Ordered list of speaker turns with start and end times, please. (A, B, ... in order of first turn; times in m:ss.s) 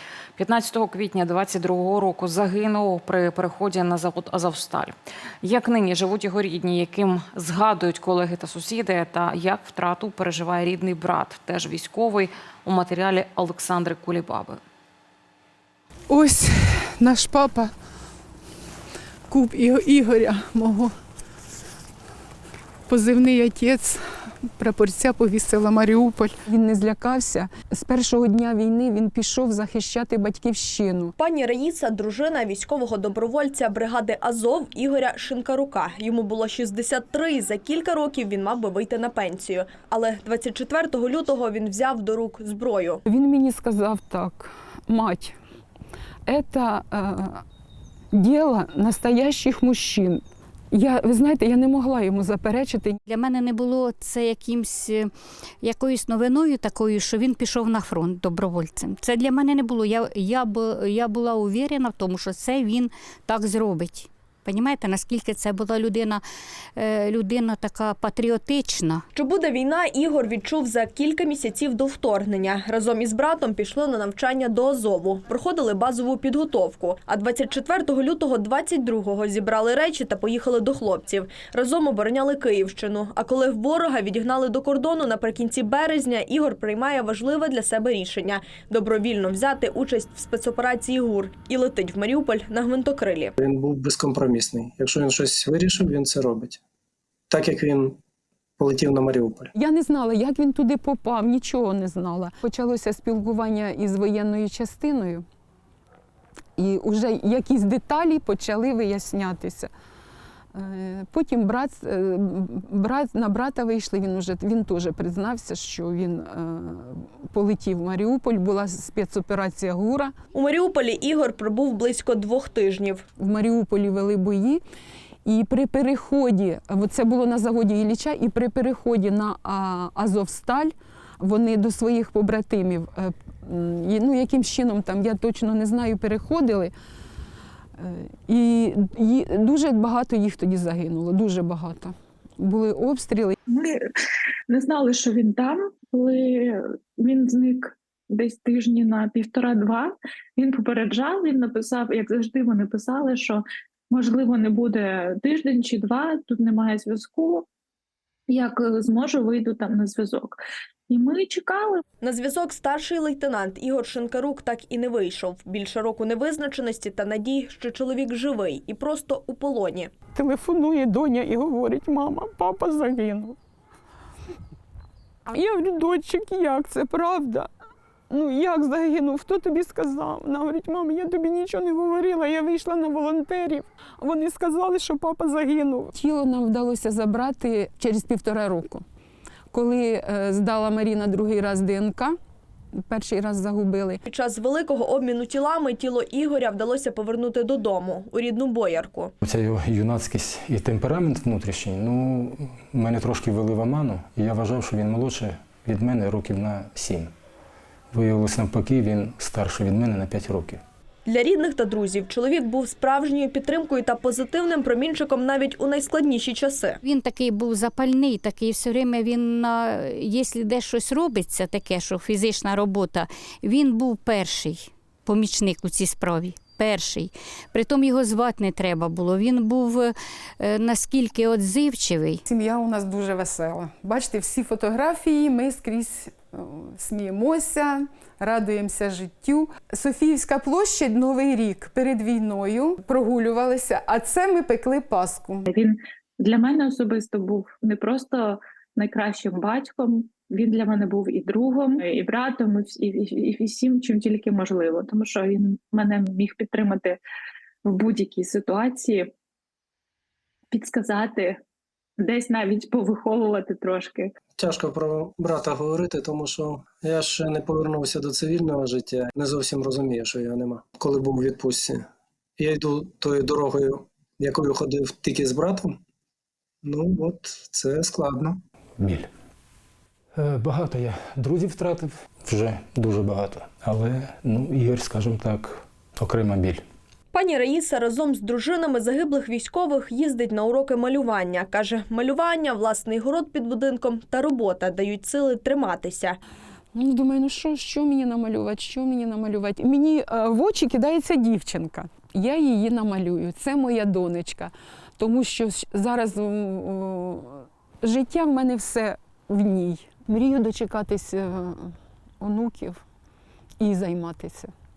0:00.4-0:14.6 A
0:16.1-0:17.7 B
0:19.3-0:20.9 B
0:22.9-0:31.1 B
0:31.2-0:43.0 C
0:43.0-0:45.4 B
0:46.3-0:47.4 B
0:48.1-0:53.0 B
0:53.1-1:06.2 D
1:06.8-1:09.0 D
1:09.2-1:33.3 C
1:33.4-1:36.6 E
1:37.3-1:38.0 E
1:38.6-1:39.5 E
1:39.5-1:45.2 B
1:46.6-1:49.7 B
1:50.5-2:00.1 B
2:00.3-2:03.0 C
2:03.2-2:04.6 B
2:05.2-2:16.7 B
2:17.8-2:23.4 B
2:23.5-2:23.9 F
2:24.5-2:37.4 F
2:38.3-2:40.4 F
2:40.9-2:41.8 F
2:42.0-2:49.9 C
2:50.1-2:53.4 B
2:55.3-2:57.5 B
2:58.1-3:08.8 B
3:09.5-3:12.1 B
3:12.8-3:14.0 B
3:14.1-3:19.1 C
3:19.2-3:27.1 G
3:27.9-3:30.6 G
3:31.1-3:36.8 C
3:36.8-3:52.2 D
3:52.2-4:05.5 B
4:05.5-4:17.0 F
4:17.6-4:19.1 F
4:20.5-4:21.4 F
4:22.0-4:24.1 F
4:24.4-4:31.8 E
4:32.4-4:35.8 E
4:36.6-4:38.4 E
4:38.8-4:39.1 G
4:40.1-4:46.6 G
4:47.1-4:56.2 C
4:56.7-5:12.8 B
5:13.6-5:14.5 B